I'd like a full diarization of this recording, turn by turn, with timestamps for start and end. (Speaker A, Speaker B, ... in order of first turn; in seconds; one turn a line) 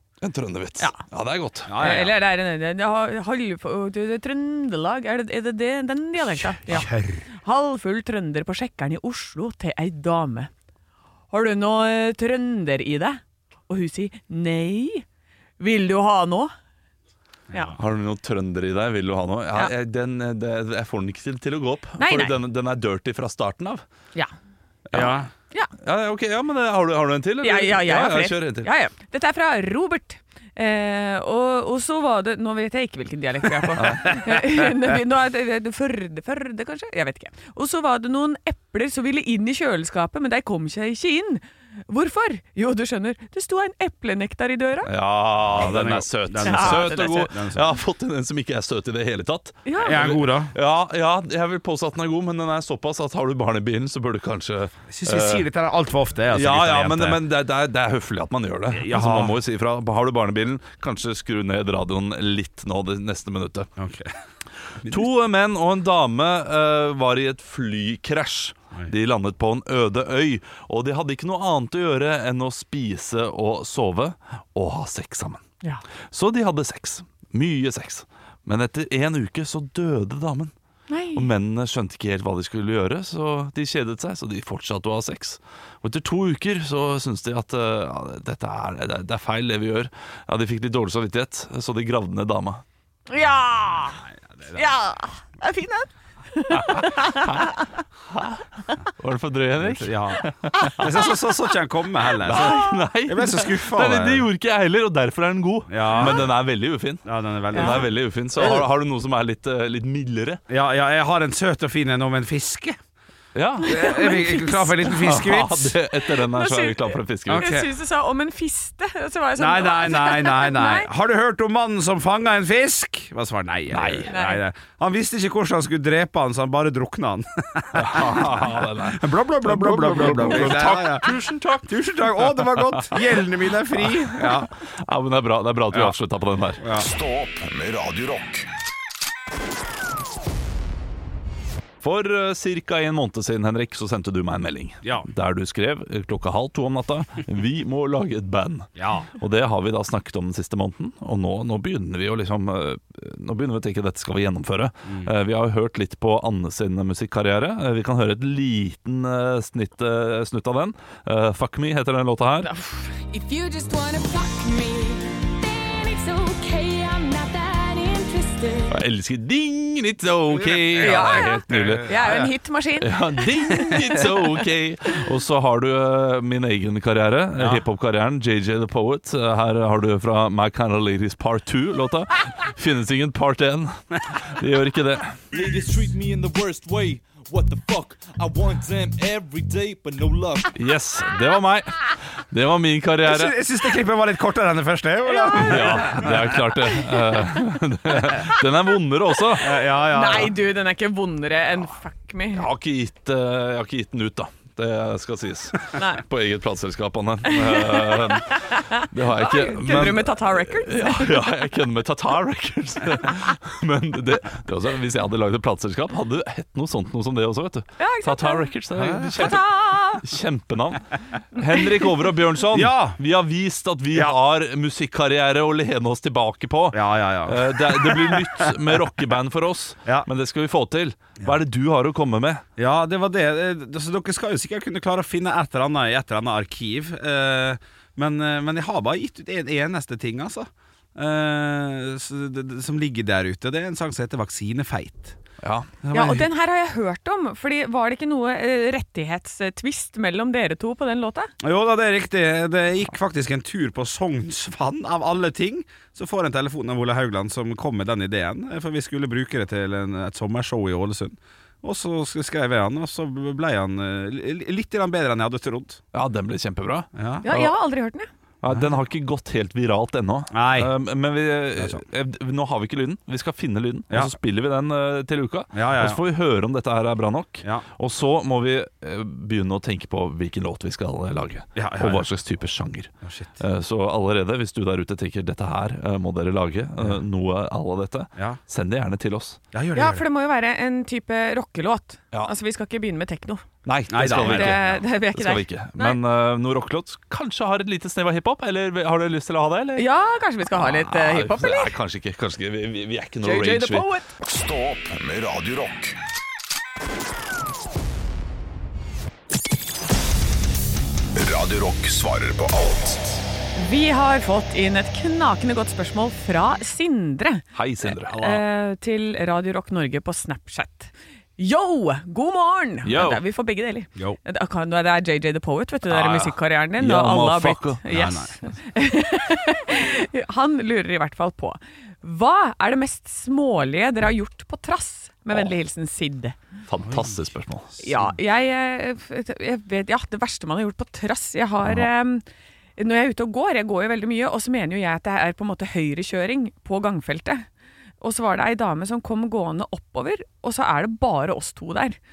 Speaker A: 0.2-1.9
Speaker B: 1.7-2.1
Speaker C: 1.8-6.9
Speaker B: 6.5-7.3
Speaker C: 7.4-10.5
Speaker C: 11.3-15.1
Speaker C: 15.6-16.5
Speaker A: 17.8-23.8
Speaker C: 22.0-22.4
Speaker B: 24.9-25.3
Speaker A: 25.8-28.7
Speaker C: 27.4-44.9
Speaker A: 33.8-34.1
Speaker A: 44.9-55.5
Speaker B: 45.5-47.7
Speaker C: 46.4-47.2
Speaker C: 49.6-50.0
Speaker B: 49.8-50.5
Speaker B: 54.9-57.2
Speaker A: 56.3-63.7
Speaker B: 58.7-59.4
Speaker B: 63.8-64.1
Speaker B: 64.8-65.1
Speaker A: 64.8-75.4
Speaker A: 76.1-80.5
Speaker C: 80.9-81.3
Speaker A: 81.1-92.6
Speaker C: 93.1-94.0
Speaker B: 94.3-94.7
Speaker C: 94.5-97.7
Speaker A: 96.6-97.5
Speaker A: 98.1-98.4
Speaker A: 99.0-100.9
Speaker B: 99.6-104.3
Speaker A: 102.2-110.4
Speaker C: 102.4-102.7
Speaker B: 105.7-106.3
Speaker B: 107.0-108.7
Speaker C: 107.5-107.8
Speaker B: 110.5-112.8
Speaker A: 113.3-117.5
Speaker B: 113.7-115.8
Speaker C: 113.7-114.5
Speaker C: 116.1-120.9
Speaker B: 117.3-117.7
Speaker B: 119.4-131.1
Speaker A: 123.7-124.1
Speaker C: 124.1-124.4
Speaker A: 127.7-131.8
Speaker B: 131.7-134.5
Speaker A: 132.3-133.1
Speaker A: 133.9-136.6
Speaker B: 136.6-136.9
Speaker D: 136.7-138.5
Speaker A: 141.8-162.5
Speaker B: 144.8-145.1
Speaker B: 148.8-149.1
Speaker B: 154.9-155.1
Speaker C: 162.4-164.7
Speaker E: 163.2-165.0
Speaker E: 165.5-168.7
Speaker C: 165.8-166.1
Speaker C: 167.9-168.3
Speaker A: 168.7-172.1
Speaker B: 170.3-172.3
Speaker C: 170.8-174.0
Speaker A: 172.8-185.2
Speaker B: 177.4-177.7
Speaker F: 185.3-190.5
Speaker A: 190.6-193.3
Speaker B: 193.0-196.6
Speaker C: 195.1-196.1
Speaker A: 195.4-199.5
Speaker B: 199.4-200.3
Speaker C: 199.8-202.4
Speaker A: 202.3-232.4
Speaker C: 205.7-206.0
Speaker C: 207.3-211.3
Speaker C: 217.8-218.5
Speaker B: 218.7-219.4
Speaker C: 219.2-220.0
Speaker B: 222.5-223.0
Speaker B: 226.7-228.8
Speaker B: 232.6-245.2
Speaker A: 245.4-245.8
Speaker B: 245.8-246.3
Speaker C: 245.9-251.3
Speaker B: 251.4-265.8
Speaker A: 265.9-267.5
Speaker B: 266.9-267.3
Speaker C: 267.2-268.1
Speaker A: 268.4-289.4
Speaker B: 270.3-270.7
Speaker B: 275.5-276.0
Speaker B: 281.6-282.1
Speaker B: 283.0-283.4
Speaker B: 289.5-290.0
Speaker C: 289.8-293.4
Speaker A: 293.6-299.9
Speaker B: 293.9-294.6
Speaker C: 294.0-296.0
Speaker C: 299.8-301.7
Speaker A: 300.6-303.9
Speaker C: 303.2-304.1
Speaker D: 304.2-306.0
Speaker D: 311.2-313.2
Speaker C: 313.6-317.4
Speaker A: 317.6-318.2
Speaker B: 317.9-318.4
Speaker C: 318.2-336.4
Speaker A: 322.8-323.2
Speaker A: 325.9-327.8
Speaker B: 327.9-328.4
Speaker A: 336.7-337.8
Speaker B: 336.9-337.2
Speaker C: 337.8-342.2
Speaker A: 341.6-341.9
Speaker C: 342.8-347.5
Speaker C: 348.0-352.0